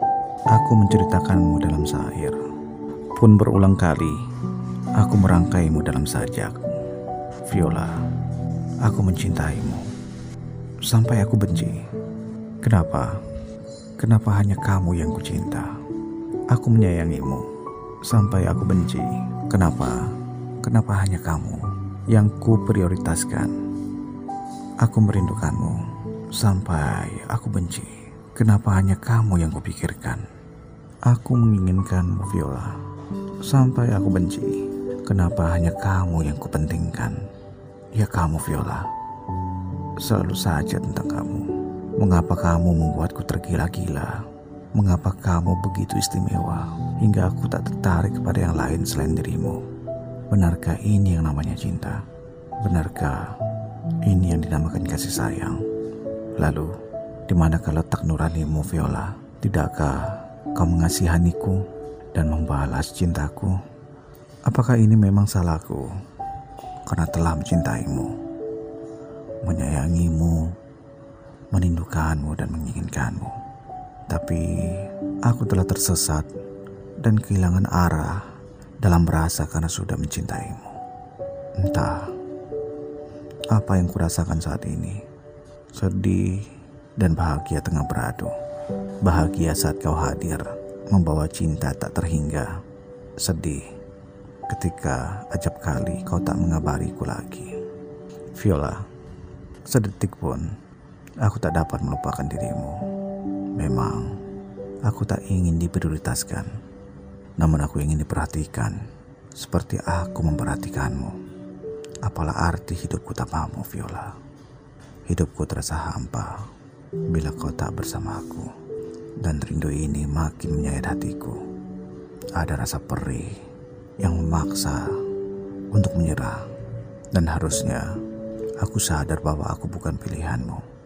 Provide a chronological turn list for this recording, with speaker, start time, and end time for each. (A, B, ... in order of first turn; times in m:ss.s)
0:00.5-0:02.4 A
0:03.1-0:04.2 A
0:05.0-0:06.8 A
0:07.4-0:08.0 A
0:08.8-0:09.9 A
0:10.8-0:11.8 A
0:12.6-0:13.2 A
0:14.0-0:15.8 A
0:16.5-0:17.5 A
0:18.0-0:23.6 A
0:24.8-0:30.3 A
0:31.0-0:32.8 A
0:33.4-0:37.2 A
0:37.9-0:38.9 A
0:40.0-0:49.6 A
0:50.3-0:52.0 A
0:52.6-0:53.3 A
0:54.0-0:55.6 A
0:56.4-0:56.7 A
0:57.3-1:03.6 A
1:04.4-1:05.9 A
1:06.8-1:08.1 A
1:09.4-1:10.5 A
1:11.5-1:13.4 A
1:14.1-1:16.3 A
1:17.0-1:18.3 A
1:18.8-1:20.8 A
1:21.6-1:22.1 A
1:23.5-1:25.0 A
1:25.7-1:28.3 A
1:29.0-1:32.6 A
1:33.2-1:33.7 A
1:34.5-1:37.6 A
1:38.3-1:38.8 A
1:39.6-1:40.5 A
1:41.2-1:42.8 A
1:43.5-1:44.2 A
1:44.8-1:46.5 A
1:47.4-1:48.8 A
1:49.3-1:51.2 A
1:52.0-1:54.2 A
1:55.1-1:56.5 A
1:57.1-1:58.5 A
1:59.2-2:01.4 A
2:02.3-2:03.4 A
2:04.0-2:05.0 A
2:05.7-2:06.5 A
2:07.1-2:08.0 A
2:08.6-2:10.6 A